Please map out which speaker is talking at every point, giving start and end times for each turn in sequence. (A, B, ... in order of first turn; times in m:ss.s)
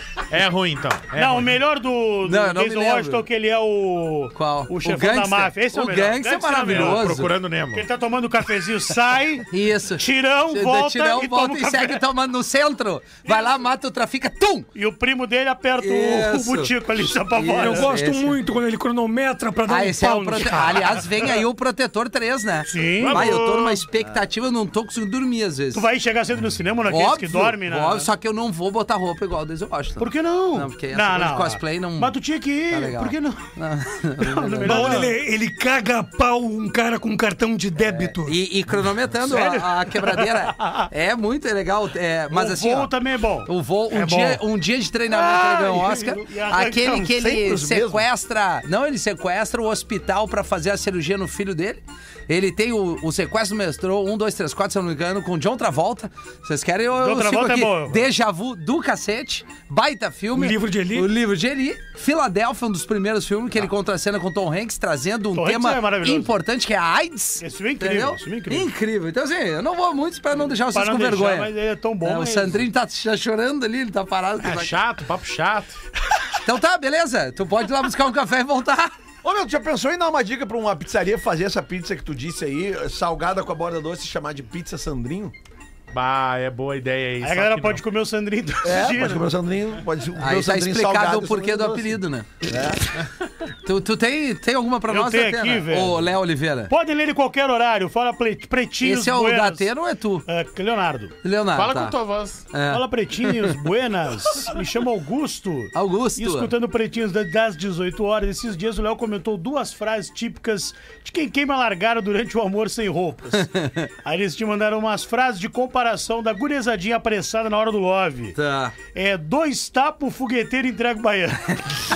0:00.3-0:01.6 A
0:01.1-0:07.0 B
0:02.2-0:03.2 C
0:04.3-0:07.3 C
0:06.6-0:07.9 A
0:07.7-0:12.0 B
0:09.5-0:14.7 C
0:14.7-0:17.9 B
0:15.8-0:18.4 C
0:17.6-0:21.0 D
0:19.7-0:25.9 C
0:22.7-0:23.6 B
0:23.0-0:23.8 A
0:25.7-0:28.1 B
0:26.9-0:32.1 C
0:30.0-0:33.4 B
0:32.7-0:35.1 C
0:34.2-0:35.1 B
0:34.6-0:38.4 D
0:37.8-0:42.9 C
0:39.2-0:40.9 B
0:42.3-0:44.4 B
0:43.4-1:14.7 C
0:45.1-0:47.2 B
0:47.0-0:48.1 E
0:57.0-0:58.1 B
1:00.3-1:01.1 D
1:05.3-1:06.3 B
1:07.4-1:08.7 B
1:10.7-1:12.6 B
1:14.4-1:15.8 A
1:16.4-1:18.9 C
1:19.2-1:25.3 E
1:25.9-1:27.8 A
1:27.2-1:29.3 B
1:28.6-1:32.9 E
1:30.2-1:32.4 C
1:33.6-1:36.7 C
1:34.9-1:36.0 B
1:36.7-1:39.7 B
1:38.8-1:40.2 C
1:40.3-1:41.2 B
1:41.2-1:41.9 C
1:41.5-1:42.5 A
1:42.5-1:43.5 C
1:42.7-1:53.5 B
1:45.7-1:46.5 C
1:53.4-1:53.9 C
1:54.0-1:58.4 B
1:58.3-1:58.7 C
1:58.9-2:01.6 B